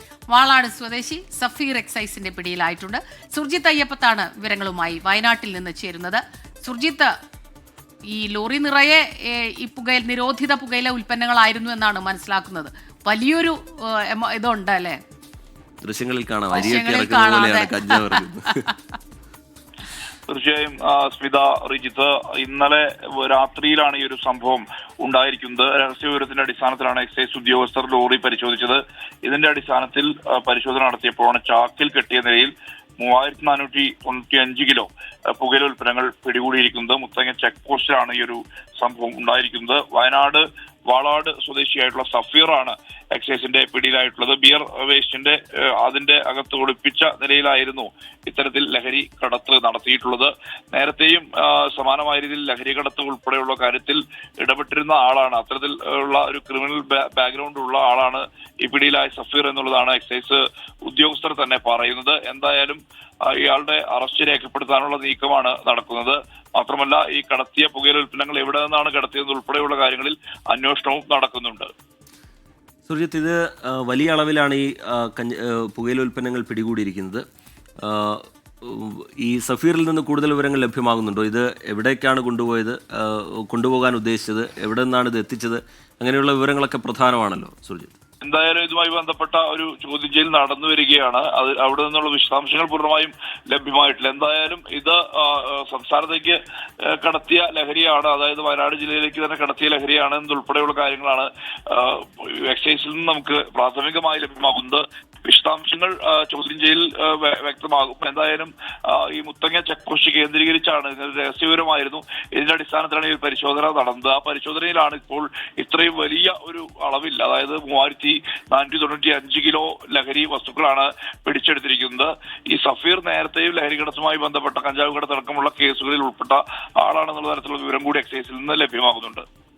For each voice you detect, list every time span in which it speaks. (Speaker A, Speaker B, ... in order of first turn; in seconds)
Speaker A: 0.3-7.1, 8.1-15.0, 16.5-18.5
Speaker B: 15.8-18.7, 72.9-77.2, 77.8-87.9
Speaker C: 20.3-71.7, 88.2-129.2